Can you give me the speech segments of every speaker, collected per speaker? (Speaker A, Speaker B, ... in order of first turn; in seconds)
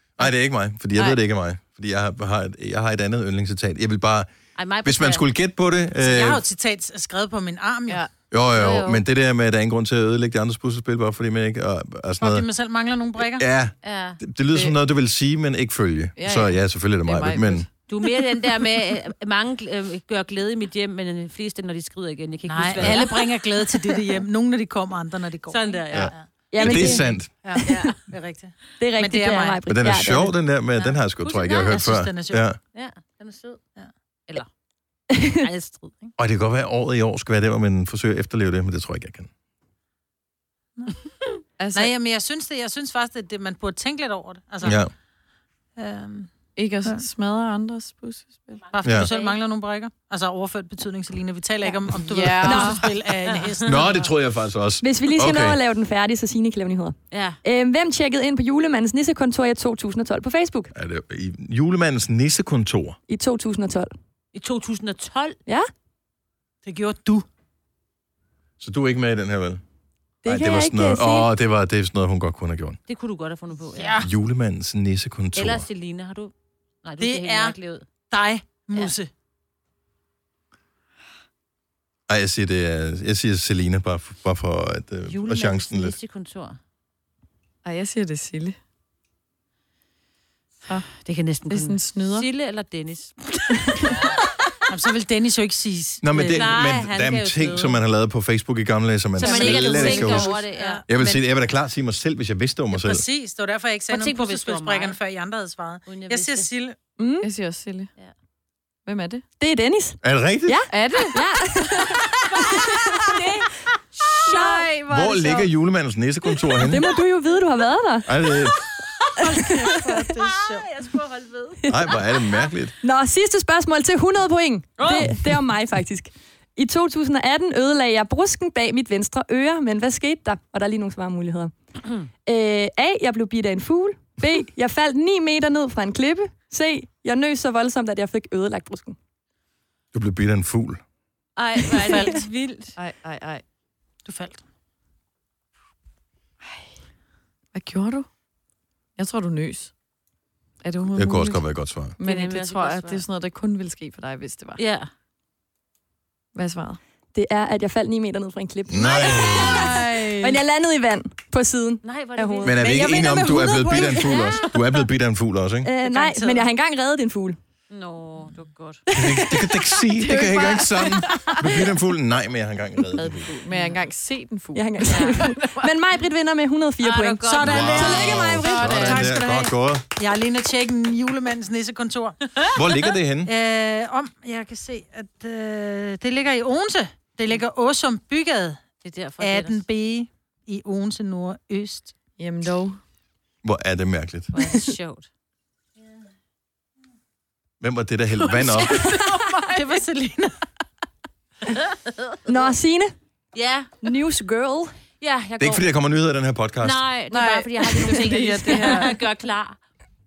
Speaker A: 0.2-4.3, 4.8-6.4, 8.3-12.4, 13.2-17.7, 22.8-23.1, 25.9-27.3, 29.7-32.6, 36.2-39.3, 44.6-44.9, 48.8-49.1, 53.6-55.6, 60.7-63.0, 68.6-69.6, 70.2-72.8, 74.0-75.7, 82.1-86.0, 96.0-103.0, 110.0-110.7, 114.9-116.8, 118.1-118.6, 121.7-122.7, 139.9-140.8, 150.9-151.9, 158.7-159.8, 162.4-165.7, 168.9-173.4, 177.4-179.8, 182.5-183.3, 193.4-194.3, 197.6-198.8, 205.4-206.8
Speaker B: 0.9-1.2, 16.1-17.7, 41.6-41.9, 46.5-48.7, 51.6-52.9, 87.6-88.6, 91.5-92.2, 107.2-107.9, 108.8-109.2, 110.7-111.2, 114.2-115.5, 142.8-143.4, 146.4-146.7, 147.5-148.1, 149.0-149.7, 150.6-151.4, 152.0-154.6, 156.3-156.8, 159.3-160.4, 169.9-171.6, 172.9-175.3, 178.5-179.1, 192.2-192.8, 207.1-209.0
Speaker C: 4.5-5.2, 8.5-9.0, 13.8-14.2, 17.9-24.0, 25.5-26.1, 27.6-28.0, 30.8-31.9, 32.7-33.6, 35.3-36.1, 48.9-49.3, 53.2-53.6, 57.1-57.4, 64.3-65.4, 72.9-74.0, 75.3-76.3, 76.8-77.8, 85.0-86.6, 91.0-94.2, 96.1-97.8, 99.2-101.2, 103.9-105.0, 105.9-106.5, 114.0-114.8, 118.7-122.3, 124.8-125.1, 141.4-142.8, 152.0-153.0, 154.6-154.9, 161.8-163.0, 164.1-164.5, 165.8-166.4, 167.7-168.8, 173.5-173.8, 174.9-175.2, 176.8-177.7, 188.8-189.6, 194.3-195.1, 203.3-203.7, 205.0-205.7, 206.6-209.6
Speaker D: 6.0-8.0, 12.2-13.4, 22.5-29.6, 31.6-32.4, 41.7-44.8, 45.8-46.3, 48.7-54.1, 66.6-67.2, 73.7-74.1, 77.0-79.1, 94.7-96.5, 99.2-100.8, 102.7-106.8, 119.2-120.7, 141.9-142.2, 144.1-144.4, 162.6-164.4, 177.2-182.6, 183.2-188.6, 189.2-191.9, 198.4-200.3
Speaker E: 26.5-27.8, 28.8-30.3, 35.1-35.4, 54.8-60.7, 63.1-63.9, 70.2-71.3, 107.0-107.3, 109.4-113.3, 116.6-118.1, 119.3-119.7, 122.8-131.5, 132.2-139.0, 157.1-164.2, 165.6-167.4, 168.9-169.7, 174.5-178.7, 202.2-202.9, 203.8-204.7